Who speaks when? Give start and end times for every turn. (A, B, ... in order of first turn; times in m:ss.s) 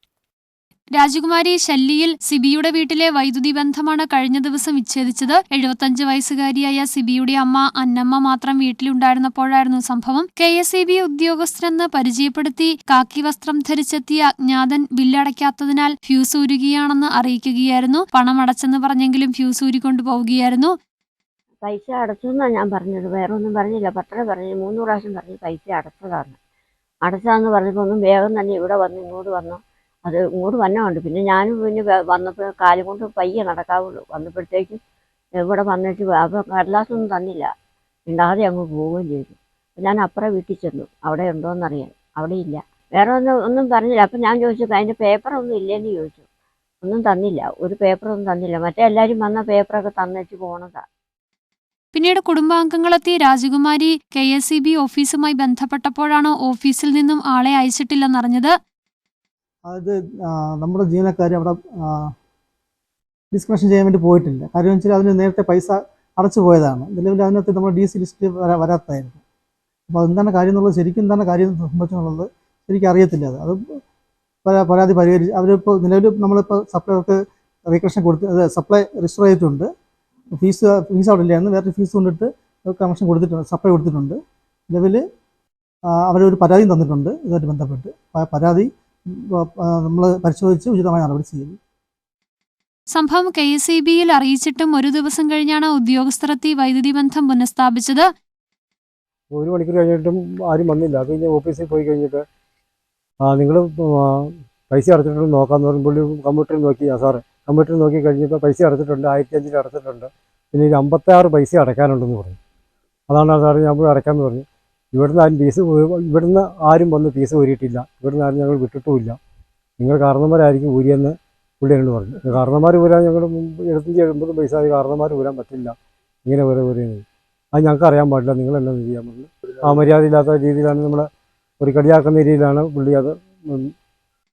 0:00.9-0:20.7 A
0:21.6-0:26.4 B
0:27.0-0:34.8 B
0:35.4-0:37.5 B
0:38.1-0:46.2 B
0:46.8-0:50.8 B
0:51.9-0:58.5 A
0:59.6-1:02.1 C
1:03.3-1:09.2 C
1:09.9-1:13.6 C
1:14.4-1:19.7 C
1:20.4-1:24.2 C
1:24.7-1:25.0 C
1:26.0-1:31.6 C
1:32.9-1:38.1 A
1:39.3-1:42.2 D
1:43.2-1:52.4 D
1:53.1-1:59.2 D
1:59.8-2:05.7 D
2:06.2-2:11.1 D
2:11.6-2:13.7 D